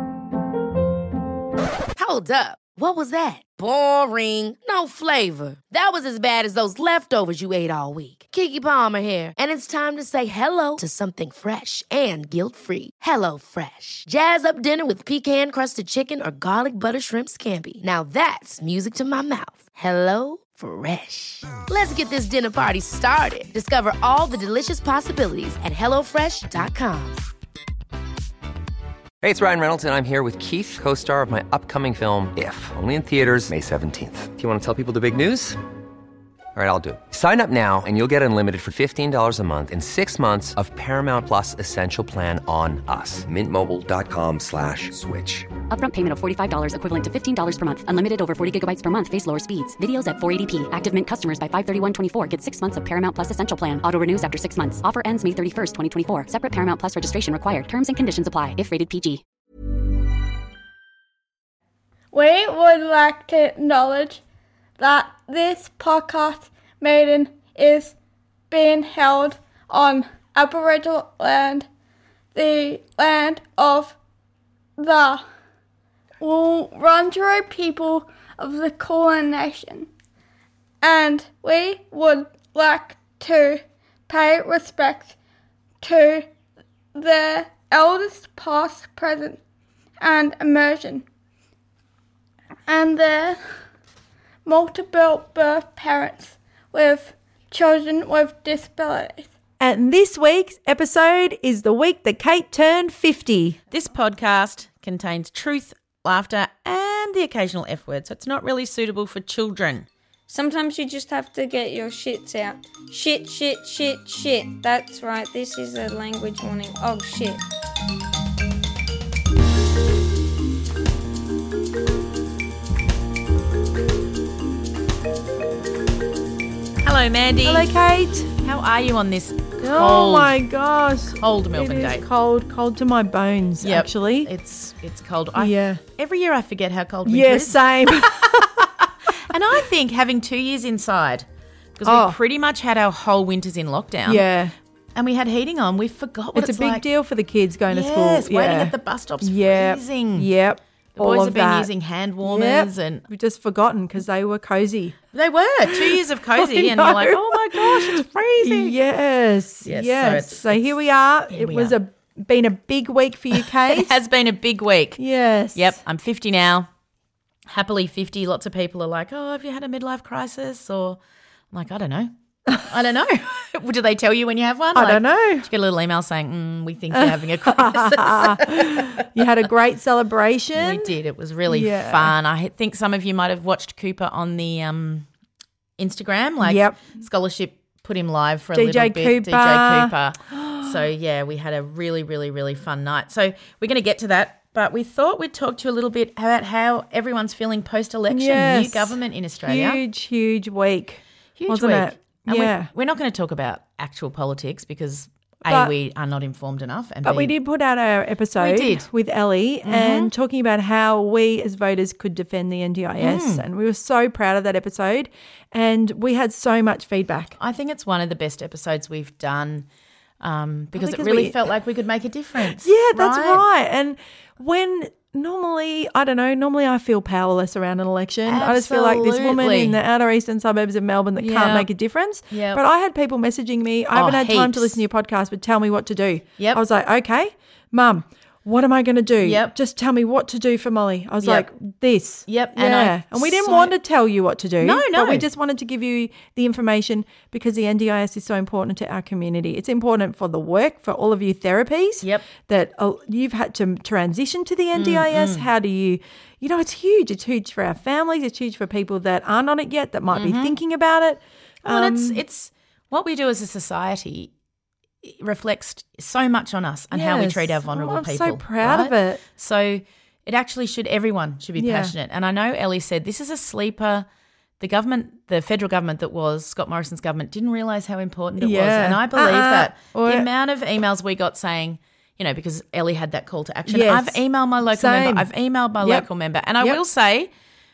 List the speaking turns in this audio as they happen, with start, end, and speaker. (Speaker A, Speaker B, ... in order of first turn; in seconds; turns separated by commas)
Speaker A: 1.9-27.3, Speaker B: 29.2-35.6, Speaker B: 36.5-45.5, Speaker C: 45.7-59.2, Speaker D: 62.1-64.2, Speaker D: 64.8-67.9, Speaker D: 68.5-71.7, Speaker D: 72.3-74.0, Speaker D: 74.8-75.2, Speaker D: 76.2-79.9, Speaker D: 80.8-85.1, Speaker D: 85.8-86.3, Speaker D: 86.9-89.4, Speaker D: 90.0-91.0, Speaker D: 92.7-93.6, Speaker D: 94.4-99.3, Speaker E: 99.6-103.6, Speaker F: 103.7-109.9, Speaker G: 110.3-117.4, Speaker F: 126.8-127.7, Speaker E: 127.4-128.3, Speaker F: 128.4-130.3, Speaker E: 129.6-134.3, Speaker F: 131.2-132.0, Speaker F: 133.6-138.1, Speaker E: 135.3-135.8, Speaker E: 137.1-138.7, Speaker F: 139.3-144.2, Speaker E: 141.8-142.2, Speaker E: 144.1-144.5, Speaker F: 144.9-146.8, Speaker E: 146.3-151.7, Speaker F: 147.7-150.3, Speaker F: 150.9-153.1, Speaker E: 152.2-155.0, Speaker F: 155.1-158.8, Speaker E: 155.7-163.9, Speaker F: 159.6-160.7, Speaker F: 161.3-161.8, Speaker F: 163.3-165.0, Speaker E: 165.0-165.8, Speaker F: 165.5-166.7, Speaker F: 167.4-171.0, Speaker F: 171.5-179.2, Speaker E: 174.7-175.5, Speaker E: 176.9-180.9, Speaker F: 180.5-185.1, Speaker E: 181.5-182.1, Speaker F: 185.8-199.8, Speaker E: 186.4-187.0, Speaker E: 188.5-190.7, Speaker E: 198.1-202.7, Speaker F: 201.4-207.3, Speaker E: 205.4-205.7, Speaker E: 207.0-217.3, Speaker F: 208.4-208.9, Speaker F: 209.6-210.1, Speaker F: 213.0-213.4, Speaker F: 217.4-219.7, Speaker F: 220.2-223.4, Speaker E: 220.8-221.4, Speaker E: 222.6-262.2, Speaker F: 228.2-229.8, Speaker F: 231.2-231.7, Speaker F: 232.3-232.6, Speaker F: 233.9-234.8, Speaker F: 239.2-239.5, Speaker F: 241.2-241.5, Speaker F: 242.3-243.7, Speaker F: 244.6-245.3, Speaker F: 252.0-252.3, Speaker F: 254.7-255.5, Speaker F: 260.1-260.6, Speaker F: 261.6-264.3, Speaker F: 265.0-274.1, Speaker E: 266.9-269.2, Speaker E: 271.6-271.9, Speaker F: 274.6-287.3, Speaker E: 278.4-280.3, Speaker E: 283.7-285.3, Speaker E: 285.8-286.1